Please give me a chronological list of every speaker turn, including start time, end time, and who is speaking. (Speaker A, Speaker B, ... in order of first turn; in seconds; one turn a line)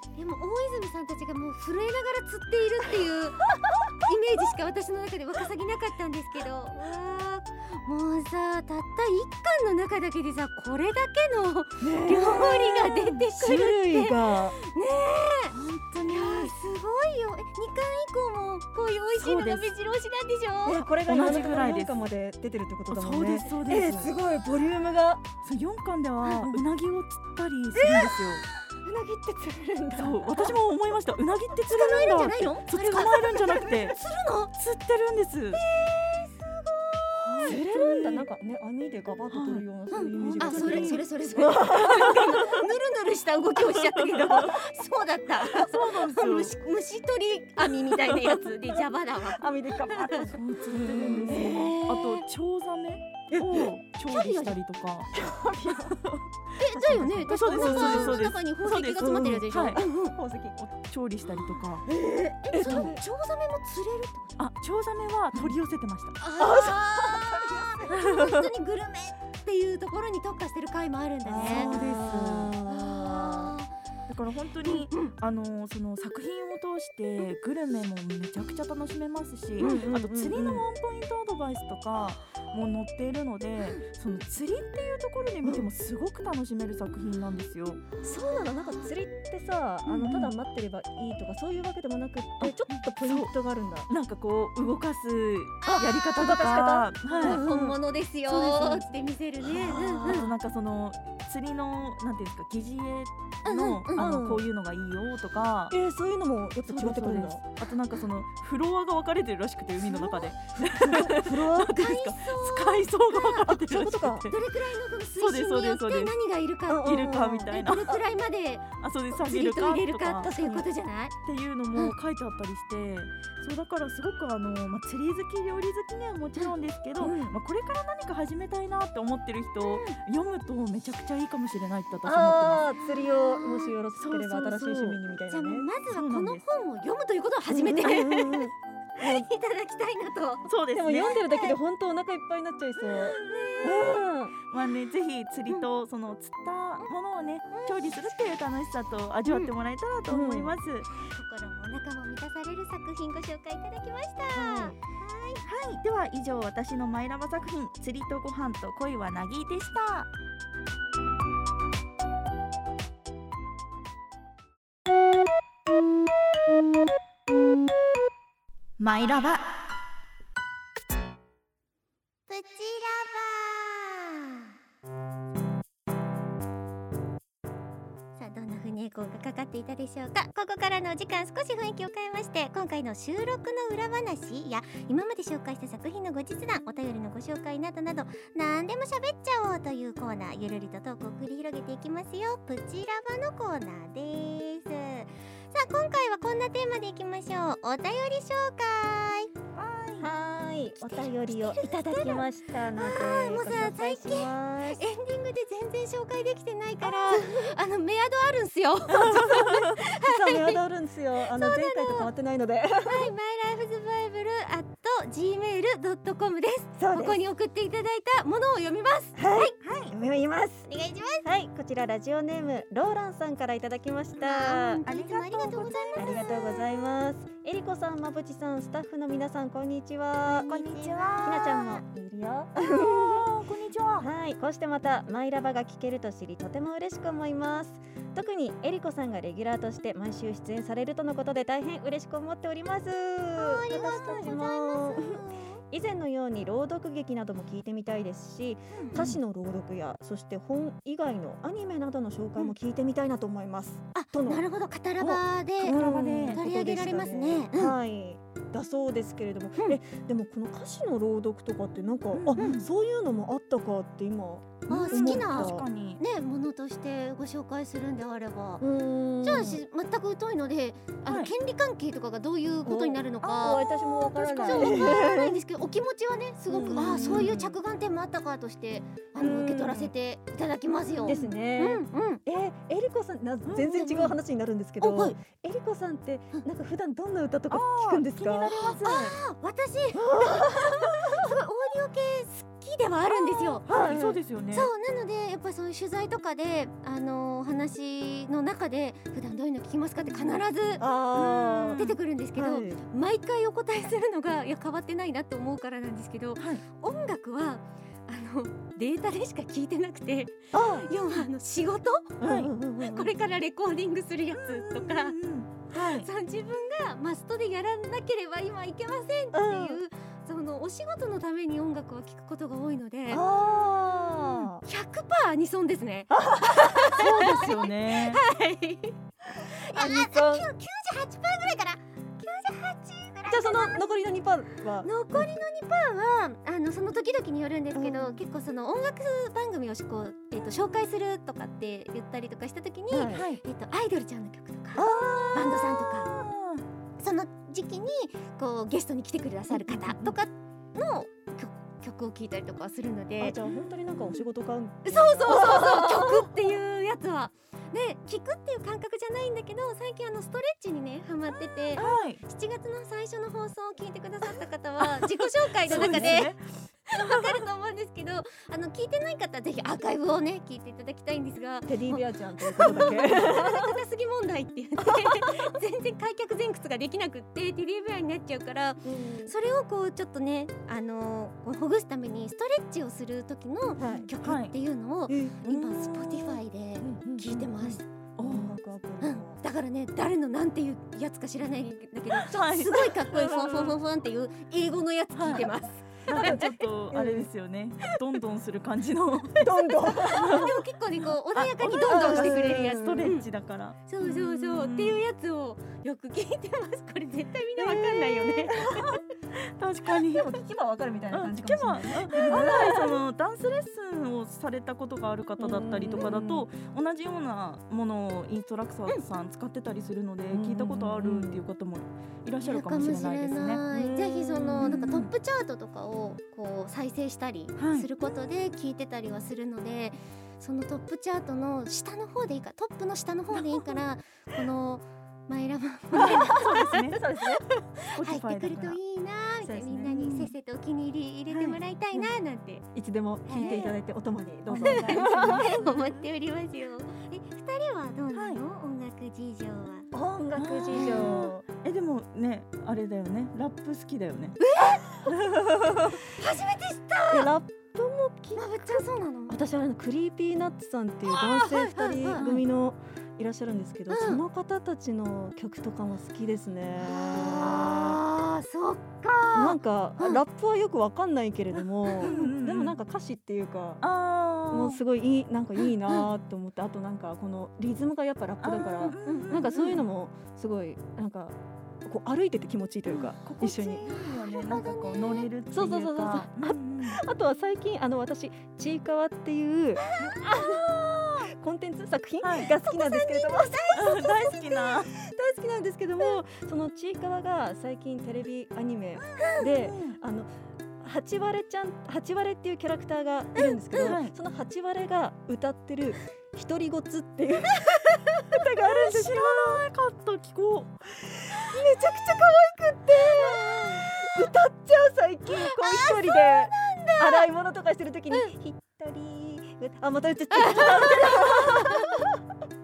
Speaker A: 0.1-15.6
Speaker B: 11.8-14.6
Speaker C: 15.5-16.5
Speaker A: 16.1-20.9
Speaker C: 19.2-19.7
Speaker B: 20.6-25.2
Speaker C: 21.0-21.9
Speaker C: 22.9-24.1
Speaker C: 25.4-28.4
Speaker A: 27.9-28.7
Speaker B: 28.8-30.5
Speaker C: 29.9-34.0
Speaker A: 31.6-34.5
Speaker C: 34.6-35.6
Speaker A: 35.5-37.6
Speaker C: 37.2-38.3
Speaker B: 37.4-42.2
Speaker C: 39.3-39.6
Speaker A: 39.9-50.3
Speaker C: 40.2-42.6
Speaker C: 43.7-44.6
Speaker C: 45.4-46.6
Speaker C: 48.1-48.4
Speaker B: 49.4-51.8
Speaker C: 50.2-55.1
Speaker A: 51.0-52.2
Speaker B: 53.3-53.6
Speaker A: 54.1-54.6
Speaker B: 55.1-56.0
Speaker C: 55.7-56.4
Speaker A: 56.6-60.1
Speaker B: 56.7-58.2
Speaker C: 57.2-59.8
Speaker B: 59.0-60.6
Speaker C: 60.6-61.9
Speaker A: 61.3-61.6
Speaker B: 61.9-63.0
Speaker A: 62.5-64.4
Speaker C: 62.6-62.9
Speaker C: 64.4-66.2
Speaker A: 66.2-71.9
Speaker B: 66.4-68.0
Speaker C: 67.9-68.5
Speaker B: 71.3-73.5
Speaker C: 71.3-72.5
Speaker A: 72.7-73.7
Speaker C: 74.1-87.8
Speaker A: 74.6-75.1
Speaker A: 79.6-79.8
Speaker B: 79.6-80.6
Speaker B: 88.0-93.9
Speaker A: 88.0-88.9
Speaker C: 89.9-90.3
Speaker C: 92.4-93.3
Speaker C: 93.9-97.4
Speaker B: 96.1-98.9
Speaker A: 97.1-100.3
Speaker B: 99.5-100.3
Speaker C: 99.7-105.8
Speaker A: 103.5-104.1
Speaker B: 103.9-104.5
Speaker B: 105.7-107.4
Speaker C: 106.6-114.4
Speaker A: 109.9-110.3
Speaker B: 110.6-111.8
Speaker A: 111.6-113.6
Speaker B: 113.7-114.3
Speaker A: 114.3-121.1
Speaker C: 115.2-116.2
Speaker B: 116.7-117.5
Speaker C: 116.8-118.0
Speaker C: 118.8-120.6
Speaker C: 121.2-132.6
Speaker B: 127.0-127.4
Speaker A: 129.6-130.0
Speaker B: 132.0-135.7
Speaker A: 133.1-141.6
Speaker C: 134.1-135.0
Speaker C: 135.9-136.4
Speaker B: 137.5-139.3
Speaker C: 140.4-141.2
Speaker B: 140.7-144.4
Speaker A: 142.8-144.0
Speaker C: 144.5-150.9
Speaker A: 147.5-148.3
Speaker B: 150.1-150.6
Speaker A: 150.9-155.5
Speaker B: 154.3-154.8
Speaker C: 155.4-160.1
Speaker C: 168.8-169.4
Speaker A: 172.3-174.5
Speaker A: 178.2-199.3
Speaker C: 199.5-200.1
Speaker B: 200.0-204.8
Speaker A: 200.8-210.6
Speaker B: 206.8-207.5
Speaker C: 208.9-209.8
Speaker B: 210.0-213.1
Speaker A: 211.3-212.1
Speaker A: 212.8-219.2
Speaker B: 216.8-217.2
Speaker B: 219.2-220.7
Speaker C: 219.6-219.9
Speaker A: 220.7-221.3
Speaker B: 221.2-224.9
Speaker A: 224.2-227.0
Speaker C: 224.9-226.2
Speaker B: 225.9-233.3
Speaker A: 230.3-231.8
Speaker C: 230.7-231.1
Speaker C: 232.6-234.1
Speaker B: 234.0-254.4
Speaker A: 243.4-245.6
Speaker A: 248.7-249.0
Speaker C: 248.9-249.2
Speaker A: 253.9-257.8
Speaker C: 255.0-256.4
Speaker B: 255.6-265.6
Speaker C: 262.1-262.7
Speaker A: 262.4-262.6
Speaker C: 264.7-266.0
Speaker A: 264.7-268.6
Speaker B: 268.6-269.6
Speaker A: 269.2-282.2
Speaker C: 271.1-271.3
Speaker B: 272.6-275.4
Speaker C: 274.5-274.9
Speaker B: 276.5-277.6
Speaker C: 276.8-277.3
Speaker B: 279.1-279.9
Speaker B: 281.1-288.5
Speaker A: 283.6-284.2
Speaker A: 284.8-285.2
Speaker C: 287.5-289.2
Speaker A: 288.5-293.8
Speaker B: 289.9-291.3
Speaker B: 293.6-294.2
Speaker C: 293.6-294.7
Speaker A: 294.5-300.8
Speaker B: 300.8-301.8
Speaker C: 301.1-302.0
Speaker A: 301.8-315.2
Speaker B: 302.4-302.8
Speaker C: 306.4-306.6
Speaker B: 310.5-310.9
Speaker B: 312.2-313.1
Speaker C: 312.2-312.5
Speaker C: 314.3-316.1
Speaker A: 315.7-323.2
Speaker B: 319.3-319.8
Speaker B: 323.1-324.6
Speaker A: 323.9-334.1
Speaker B: 326.1-326.9
Speaker C: 326.9-328.2
Speaker B: 329.4-330.5
Speaker B: 333.3-335.4
Speaker A: 334.8-346.1
Speaker B: 337.8-338.2
Speaker B: 342.9-343.3
Speaker C: 343.1-343.4
Speaker B: 344.8-345.6
Speaker C: 345.3-346.6
Speaker A: 347.0-353.4
Speaker B: 349.7-350.0
Speaker B: 353.2-356.2
Speaker C: 353.5-353.7
Speaker A: 354.9-387.9
Speaker C: 361.3-362.2
Speaker C: 365.6-366.4
Speaker B: 365.7-366.1
Speaker C: 366.9-367.4
Speaker B: 371.7-373.8
Speaker C: 372.6-373.0
Speaker B: 378.8-379.3
Speaker B: 383.8-384.1
Speaker C: 384.2-384.6
Speaker B: 385.1-385.4
Speaker C: 385.4-386.4
Speaker B: 386.8-389.4
Speaker C: 388.2-388.5
Speaker A: 389.0-396.6
Speaker C: 392.1-393.7
Speaker C: 395.1-395.5
Speaker C: 396.1-399.4
Speaker B: 396.1-397.3
Speaker B: 399.4-400.5
Speaker A: 399.9-403.3
Speaker C: 400.1-405.0
Speaker B: 401.9-403.1
Speaker A: 403.9-409.0
Speaker B: 407.6-408.9
Speaker C: 409.3-410.3
Speaker B: 410.0-413.0
Speaker C: 411.1-423.6
Speaker B: 415.4-416.5
Speaker B: 420.3-421.4
Speaker A: 422.4-436.9
Speaker B: 423.7-424.7
Speaker C: 424.6-425.1
Speaker C: 427.6-427.9
Speaker C: 433.3-433.8
Speaker C: 435.9-437.0
Speaker B: 436.2-437.4
Speaker A: 437.6-442.6
Speaker C: 437.9-438.8
Speaker B: 439.4-440.3
Speaker C: 439.9-440.2
Speaker C: 441.3-441.6
Speaker B: 442.8-445.4
Speaker A: 443.3-443.7
Speaker C: 444.4-446.1
Speaker A: 444.6-449.9
Speaker C: 448.1-448.4
Speaker B: 449.9-451.4
Speaker C: 450.4-454.4
Speaker A: 450.7-451.3
Speaker A: 454.4-455.1
Speaker B: 455.1-456.0
Speaker A: 456.0-457.3
Speaker B: 457.1-468.0
Speaker A: 458.4-459.4
Speaker A: 461.1-462.3
Speaker C: 462.1-462.4
Speaker A: 463.9-464.2
Speaker A: 466.8-470.2
Speaker B: 469.3-473.8
Speaker A: 471.9-472.3
Speaker C: 472.0-472.8
Speaker C: 473.8-474.8
Speaker B: 474.5-483.9
Speaker C: 478.4-479.9
Speaker C: 482.9-487.0
Speaker A: 483.9-485.3
Speaker B: 485.5-509.6
Speaker A: 490.0-490.6
Speaker C: 492.2-492.6
Speaker A: 492.6-493.9
Speaker C: 493.7-494.9
Speaker A: 499.1-499.5
Speaker C: 499.4-500.0
Speaker A: 503.4-504.0
Speaker C: 503.8-504.1
Speaker A: 507.7-508.2
Speaker C: 508.6-510.9
Speaker B: 511.3-522.1
Speaker A: 511.6-512.2
Speaker A: 512.9-513.9
Speaker A: 515.4-517.3
Speaker A: 520.3-522.0
Speaker C: 520.7-521.0